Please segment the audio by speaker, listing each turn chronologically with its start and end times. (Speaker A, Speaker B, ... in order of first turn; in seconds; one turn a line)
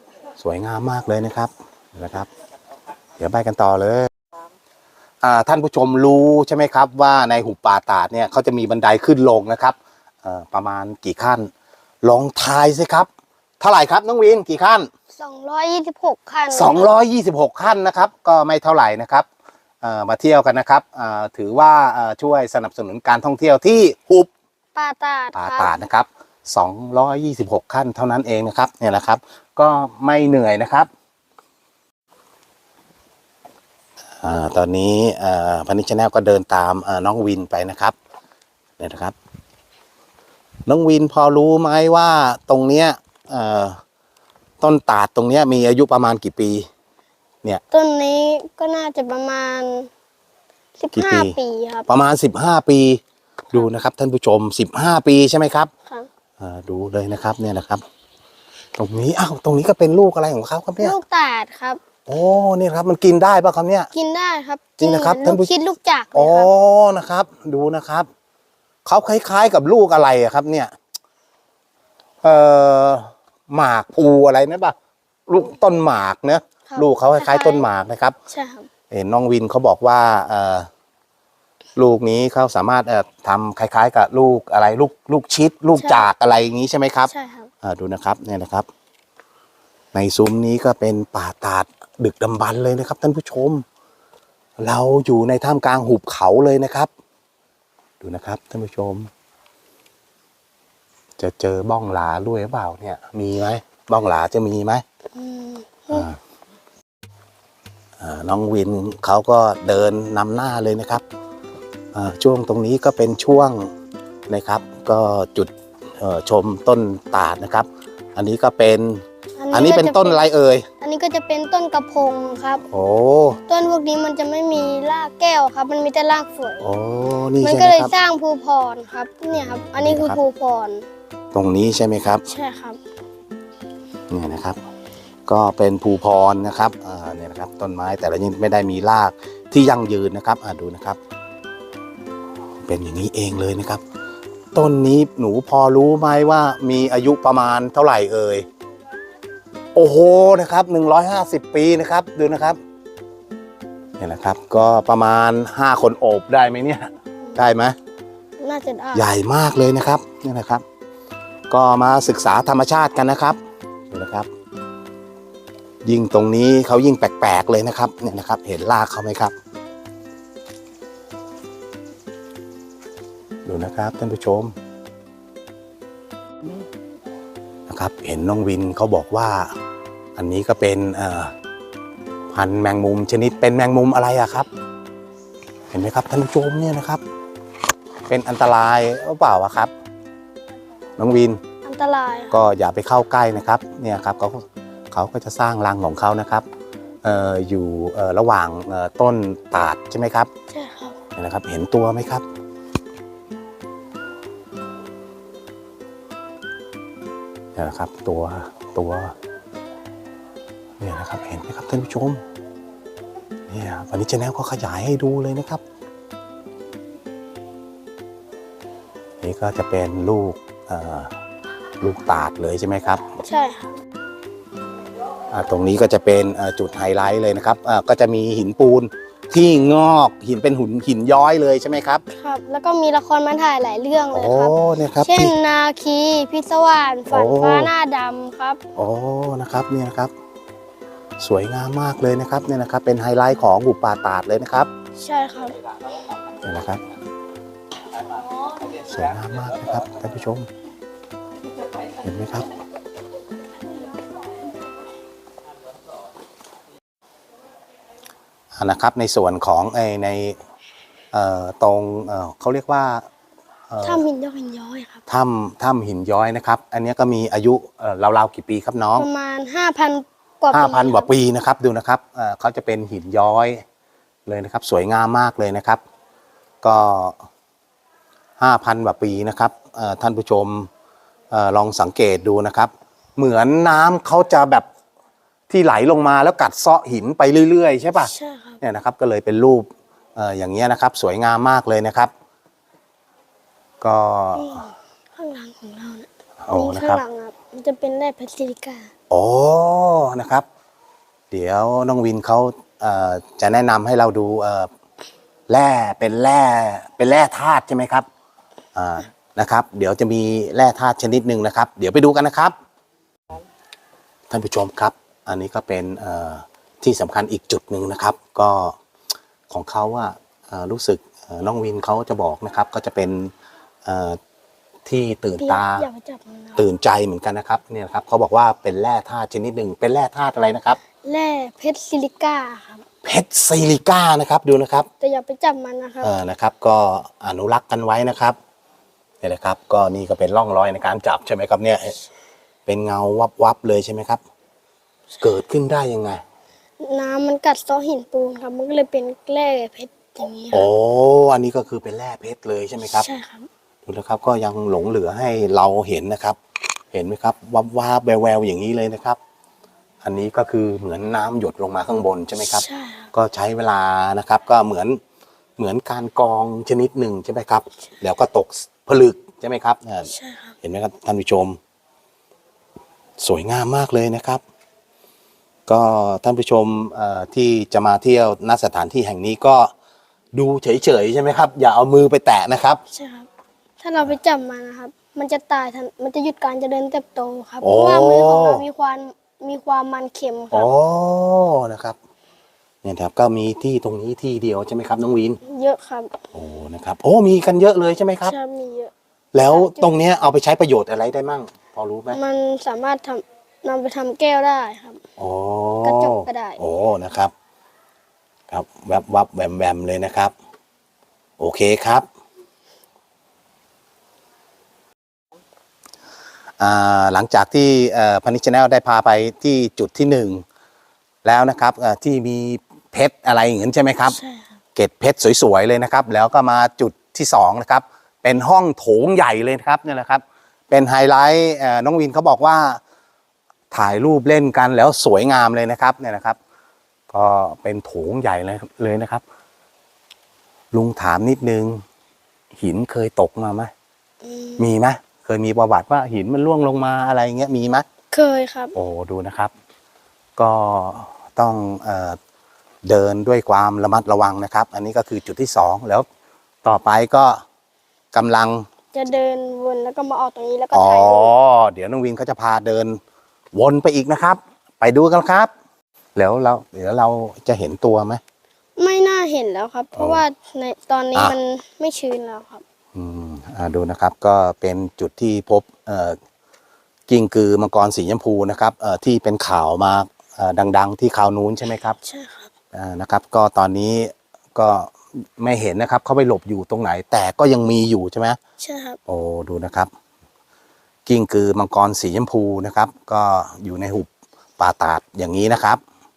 Speaker A: 0.4-2.3
Speaker A: 3.2-4.1
Speaker A: 5.2-11.5
Speaker A: 12.0-13.1
Speaker A: 13.6-14.9
Speaker B: 15.1-16.9
Speaker A: 16.5-19.3
Speaker A: 19.8-24.3
Speaker B: 24.7-25.7
Speaker A: 25.3-30.9
Speaker A: 34.2-38.0
Speaker A: 38.8-39.1
Speaker A: 40.7-43.8
Speaker A: 44.6-46.7
Speaker B: 47.7-49.9
Speaker B: 50.8-51.9
Speaker A: 50.9-51.3
Speaker A: 51.9-53.0
Speaker A: 53.5-55.7
Speaker A: 56.4-57.8
Speaker A: 58.8-61.0
Speaker B: 60.8-61.8
Speaker A: 62.1-63.9
Speaker B: 63.9-66.5
Speaker A: 64.8-65.5
Speaker A: 66.1-68.1
Speaker A: 68.8-70.7
Speaker A: 72.2-74.7
Speaker A: 75.3-78.2
Speaker B: 76.7-77.7
Speaker B: 78.3-78.7
Speaker A: 78.9-80.7
Speaker A: 81.8-87.1
Speaker B: 85.8-86.1
Speaker B: 87.1-87.5
Speaker A: 87.6-88.7
Speaker A: 89.9-93.6
Speaker A: 94.6-96.9
Speaker A: 98.0-99.1
Speaker A: 101.2-104.8
Speaker B: 105.1-106.1
Speaker A: 105.9-106.2
Speaker A: 108.0-111.0
Speaker A: 111.9-113.7
Speaker A: 114.3-120.7
Speaker B: 119.4-120.2
Speaker B: 120.8-122.6
Speaker A: 122.7-123.4
Speaker B: 123.5-126.7
Speaker A: 126.6-127.9
Speaker B: 127.4-130.8
Speaker A: 129.4-130.2
Speaker A: 131.3-132.2
Speaker B: 132.2-132.8
Speaker A: 134.1-134.6
Speaker A: 135.3-141.0
Speaker A: 142.7-143.8
Speaker A: 144.5-148.4
Speaker A: 149.7-152.6
Speaker A: 154.0-157.8
Speaker B: 158.4-159.1
Speaker A: 158.9-160.6
Speaker A: 161.5-163.4
Speaker A: 163.9-164.3
Speaker A: 165.8-169.3
Speaker A: 173.4-174.5
Speaker A: 177.7-179.5
Speaker A: 180.2-181.3
Speaker A: 182.3-184.5
Speaker A: 185.7-187.0
Speaker A: 188.1-189.7
Speaker A: 191.0-191.4
Speaker B: 191.6-192.3
Speaker A: 192.3-196.4
Speaker A: 197.0-200.3
Speaker B: 200.5-201.0
Speaker A: 201.2-202.2
Speaker A: 207.6-209.1
Speaker A: 210.8-212.2
Speaker A: 213.5-215.6
Speaker A: 219.2-221.1
Speaker A: 221.8-223.1
Speaker B: 223.2-223.7
Speaker A: 225.3-232.0
Speaker B: 232.1-238.6
Speaker A: 234.1-235.3
Speaker A: 237.1-237.7
Speaker A: 238.8-240.1
Speaker A: 241.2-244.7
Speaker B: 245.0-245.6
Speaker A: 246.4-246.8
Speaker A: 248.7-250.5
Speaker A: 252.0-252.5
Speaker A: 258.5-260.4
Speaker A: 261.1-263.1
Speaker A: 263.7-264.0
Speaker B: 263.8-265.0
Speaker A: 265.1-269.1
Speaker B: 269.0-271.1
Speaker A: 270.5-273.6
Speaker A: 274.3-275.8
Speaker A: 276.6-277.2
Speaker A: 278.4-280.7
Speaker A: 281.3-284.6
Speaker A: 285.5-292.1
Speaker B: 288.0-288.6
Speaker A: 293.8-294.7
Speaker B: 294.3-298.9
Speaker A: 296.4-297.0
Speaker A: 299.1-300.4
Speaker A: 301.3-304.7
Speaker A: 305.5-308.1
Speaker A: 308.7-312.5
Speaker A: 314.3-318.8
Speaker A: 319.5-323.3
Speaker A: 323.8-324.2
Speaker A: 324.9-325.9
Speaker B: 325.4-326.6
Speaker A: 326.6-330.8
Speaker B: 331.0-332.8
Speaker A: 333.0-334.9
Speaker B: 335.0-336.1
Speaker A: 336.0-338.4
Speaker A: 339.2-342.0
Speaker A: 342.6-344.2
Speaker A: 345.2-346.2
Speaker B: 346.8-350.7
Speaker A: 350.5-353.1
Speaker B: 352.9-353.5
Speaker A: 353.9-356.4
Speaker A: 356.9-359.2
Speaker A: 360.0-365.0
Speaker B: 362.5-363.1
Speaker A: 365.6-370.1
Speaker B: 370.1-370.5
Speaker A: 370.6-371.6
Speaker A: 373.2-374.4
Speaker A: 375.7-379.7
Speaker A: 380.3-382.8
Speaker B: 382.9-383.3
Speaker B: 383.8-390.7
Speaker A: 387.6-388.6
Speaker A: 390.5-392.0
Speaker A: 392.8-395.4
Speaker B: 395.4-396.1
Speaker A: 396.3-398.3
Speaker B: 398.2-398.9
Speaker A: 399.3-402.2
Speaker B: 399.5-399.9
Speaker B: 402.1-405.0
Speaker A: 405.2-407.3
Speaker B: 405.8-406.6
Speaker A: 408.5-410.3
Speaker A: 411.4-412.1
Speaker A: 416.6-420.4
Speaker A: 421.2-424.2
Speaker B: 424.1-424.5
Speaker A: 424.7-432.8
Speaker A: 433.7-436.4
Speaker A: 437.1-439.2
Speaker A: 440.7-441.8
Speaker A: 442.5-443.7
Speaker B: 444.2-444.6
Speaker A: 444.6-447.9
Speaker B: 448.1-448.7
Speaker A: 448.7-449.5
Speaker A: 450.4-452.2
Speaker A: 452.8-456.1
Speaker A: 456.6-457.4
Speaker A: 458.1-458.6
Speaker B: 458.9-461.3
Speaker A: 460.7-463.0
Speaker A: 463.5-465.5
Speaker A: 466.1-468.2
Speaker B: 468.8-472.6
Speaker A: 469.9-470.2
Speaker A: 472.9-476.2
Speaker A: 477.1-482.0
Speaker B: 482.0-482.5
Speaker A: 482.7-488.4
Speaker B: 488.6-489.0
Speaker A: 489.1-489.9
Speaker A: 491.1-495.8